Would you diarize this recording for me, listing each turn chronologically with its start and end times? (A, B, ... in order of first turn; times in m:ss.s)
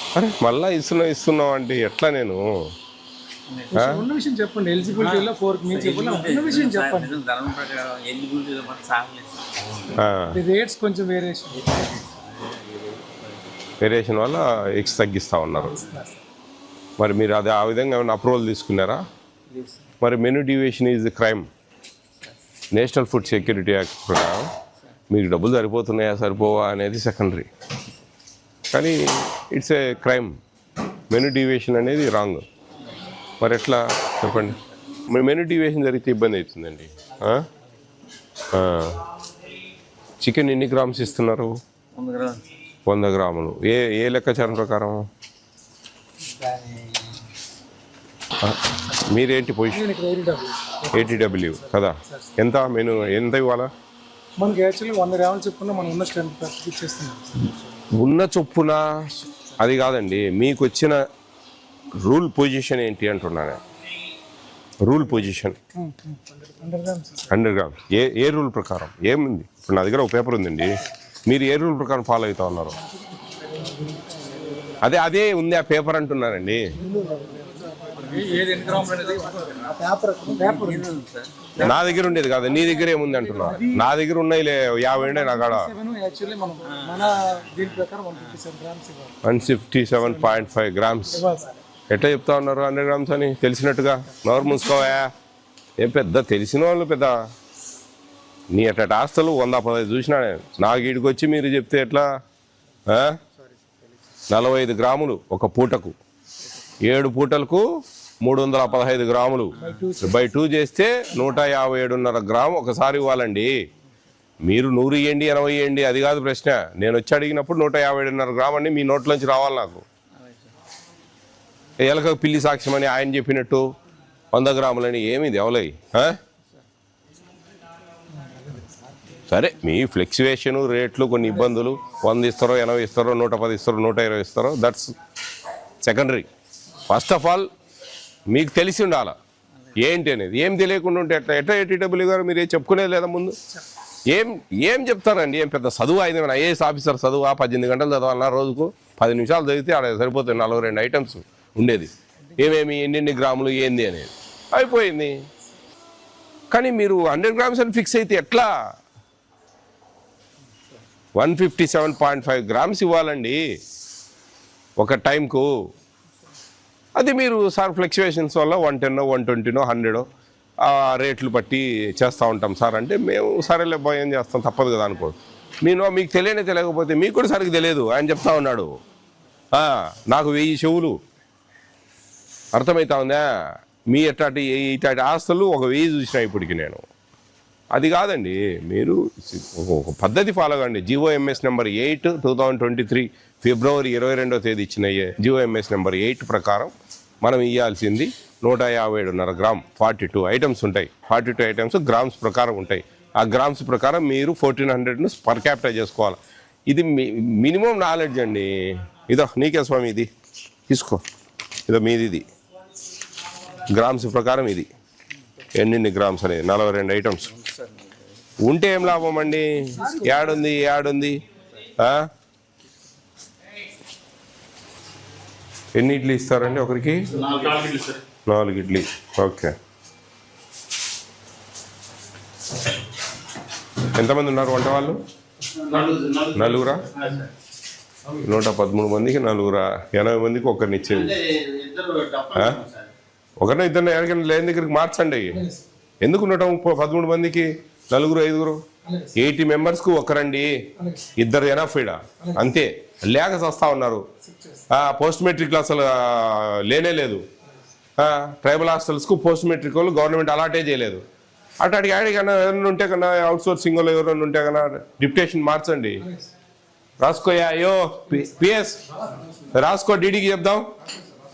0:00.2-0:02.6 A
0:03.5-0:03.8 B
0:03.7-0:07.1 C
0:03.8-0:04.0 A
0:04.9-0:10.0 B
0:10.0-0:10.4 A
0:10.3-0:11.7 C
0:11.7-0:13.4 B
0:13.8-0:15.8 A
0:15.7-0:16.2 C
0:17.0-0:19.0 A
0:20.0-0:21.5 A
0:22.7-0:24.5 A
0:25.1-0:27.5 A
0:28.7-0:30.4 A
0:31.1-0:32.4 A
0:33.4-0:37.5 A
0:38.5-0:39.0 A
0:40.2-0:41.6 A
0:42.0-0:42.5 B
0:42.9-0:45.1 A
0:46.2-0:47.3 B
0:48.4-0:49.8 A
0:49.7-0:52.3 C
0:50.9-0:53.7 A
0:54.4-0:57.6 C
0:58.0-1:01.0 A
1:02.0-1:03.6 A
1:04.8-1:05.6 A
1:05.8-1:07.3 C
1:07.3-1:12.8 A
1:13.2-1:14.8 C
1:14.8-1:16.8 A
1:16.8-1:20.9 C
1:18.0-1:19.7 B
1:20.3-1:21.5 B
1:21.6-1:25.7 A
1:21.6-1:23.9 C
1:25.0-1:29.2 C
1:26.7-1:28.4 B
1:29.2-1:31.3 A
1:30.0-1:30.4 C
1:31.1-1:31.6 C
1:31.9-1:35.1 A
1:34.3-1:34.8 C
1:35.8-1:37.2 A
1:38.5-1:42.1 A
1:42.9-1:43.2 A
1:44.3-1:46.0 A
1:46.8-1:47.6 A
1:48.2-1:53.5 A
1:49.6-1:50.2 C
1:54.4-1:59.8 A
2:01.8-2:03.7 A
2:04.3-2:06.2 A
2:08.1-2:08.9 C
2:09.3-2:15.0 A
2:15.8-2:16.3 A
2:16.9-2:17.5 A
2:18.3-2:19.2 A
2:19.8-2:23.4 A
2:24.1-2:35.2 A
2:36.5-2:38.5 A
2:41.2-2:43.4 A
2:44.8-2:45.5 A
2:47.0-2:50.1 A
2:50.6-2:58.7 A
2:59.5-3:01.0 A
3:02.5-3:03.2 A
3:03.9-3:06.8 A
3:07.7-3:30.1 A
3:30.7-3:31.0 A
3:31.7-3:32.3 A
3:33.6-3:34.7 A
3:35.5-3:37.3 A
3:37.3-3:38.0 B
3:38.4-3:41.2 A
3:41.8-3:42.1 A
3:45.8-3:47.2 A
3:47.1-3:48.0 B
3:48.3-3:49.5 A
3:53.9-3:55.0 A
3:55.6-3:57.3 B
3:56.3-3:56.9 A
3:58.1-4:01.2 A
4:01.1-4:02.9 B
4:02.3-4:02.6 A
4:03.4-4:05.4 A
4:05.3-4:05.6 C
4:06.0-4:08.6 A
4:08.8-4:09.1 C
4:09.2-4:10.5 A
4:10.8-4:11.1 C
4:11.2-4:14.0 A
4:12.2-4:12.5 C
4:14.2-4:14.6 C
4:14.7-4:17.2 A
4:18.0-4:21.0 A
4:21.6-4:26.1 A
4:27.0-4:28.8 A
4:29.5-4:30.7 A